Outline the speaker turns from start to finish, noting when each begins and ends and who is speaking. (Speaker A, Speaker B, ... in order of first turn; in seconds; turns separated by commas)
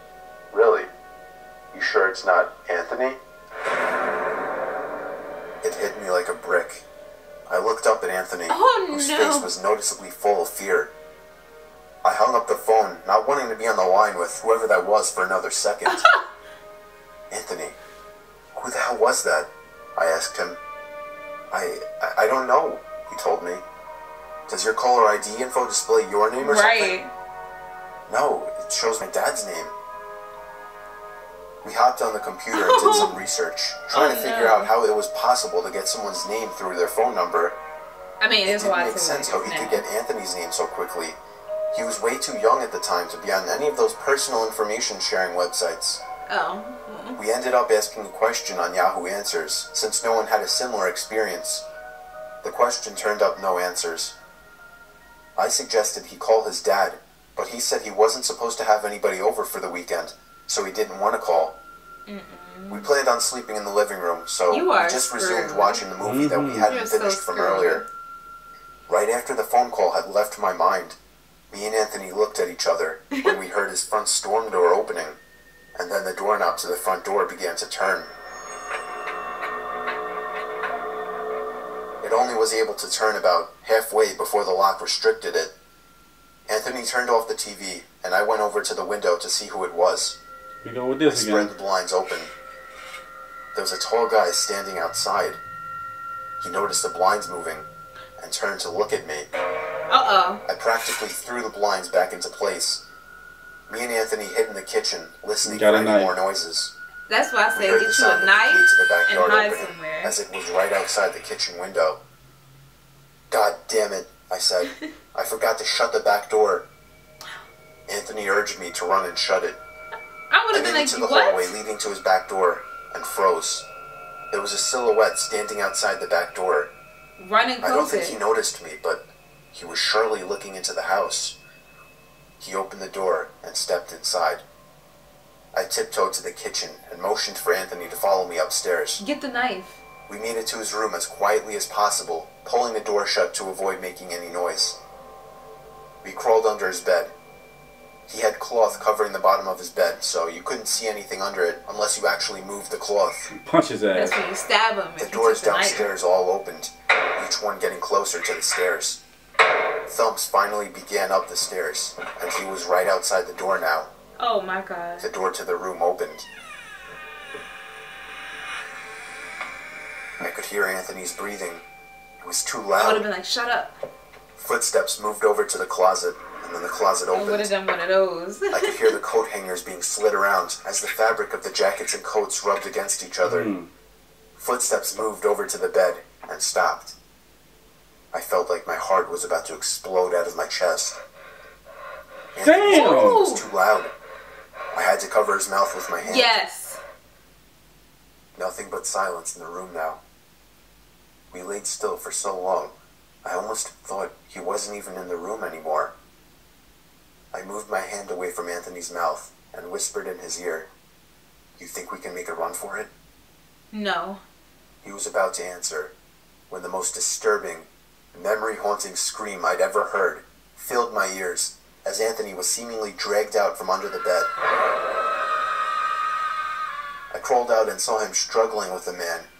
Speaker A: 0.5-0.9, Speaker A: 1.7-3.2, Speaker A: 5.6-6.8, Speaker A: 7.5-10.9, Speaker B: 8.5-9.5, Speaker A: 12.0-16.0, Speaker B: 15.8-16.2, Speaker A: 17.3-17.8, Speaker A: 18.5-20.6, Speaker A: 21.5-23.6, Speaker A: 24.5-26.9, Speaker B: 26.4-27.1, Speaker A: 28.1-29.7, Speaker A: 31.6-37.5, Speaker B: 32.5-33.1, Speaker B: 33.9-34.7, Speaker B: 38.2-39.8, Speaker A: 38.5-41.2, Speaker A: 41.7-46.0, Speaker B: 46.3-47.2, Speaker A: 47.1-51.6, Speaker A: 52.4-54.1, Speaker A: 55.4-61.5, Speaker B: 62.1-62.9, Speaker A: 62.7-67.8, Speaker B: 64.5-65.8, Speaker C: 66.0-66.7, Speaker B: 66.6-67.8, Speaker A: 68.9-71.0, Speaker A: 71.5-75.2, Speaker A: 75.8-78.1, Speaker A: 82.0-85.5, Speaker A: 86.5-90.2, Speaker C: 90.6-91.5, Speaker A: 91.1-92.3, Speaker A: 93.5-95.4, Speaker A: 96.4-97.7, Speaker A: 98.2-99.3, Speaker B: 99.9-100.4, Speaker A: 100.5-102.8, Speaker A: 103.7-106.7, Speaker C: 105.4-106.1, Speaker B: 107.1-110.1, Speaker A: 107.5-112.0, Speaker A: 113.3-116.7, Speaker A: 117.9-119.6, Speaker B: 120.3-121.5, Speaker A: 120.5-123.7, Speaker A: 124.3-126.7, Speaker B: 127.2-128.2, Speaker A: 127.6-131.4, Speaker A: 132.4-134.4, Speaker A: 135.5-139.0, Speaker B: 139.0-139.8, Speaker A: 140.1-144.8, Speaker A: 146.0-147.1, Speaker A: 148.1-153.3, Speaker C: 153.3-154.2, Speaker B: 153.9-155.9, Speaker A: 155.0-159.0, Speaker A: 159.9-163.9, Speaker B: 164.2-165.1, Speaker A: 165.0-166.2, Speaker A: 170.2-171.6, Speaker A: 172.2-173.1, Speaker B: 172.8-173.8, Speaker A: 174.3-177.5, Speaker B: 177.1-178.9, Speaker A: 178.5-183.5, Speaker C: 183.2-183.7, Speaker A: 184.3-186.9, Speaker A: 188.1-191.0, Speaker A: 192.3-193.9, Speaker C: 192.4-193.2, Speaker B: 192.7-193.4, Speaker A: 194.7-196.3, Speaker B: 196.0-196.8, Speaker A: 198.3-200.0, Speaker A: 201.3-205.9, Speaker A: 207.3-210.7, Speaker A: 211.6-212.9, Speaker B: 213.7-214.2, Speaker A: 214.8-215.9, Speaker A: 216.5-224.3, Speaker A: 227.1-229.3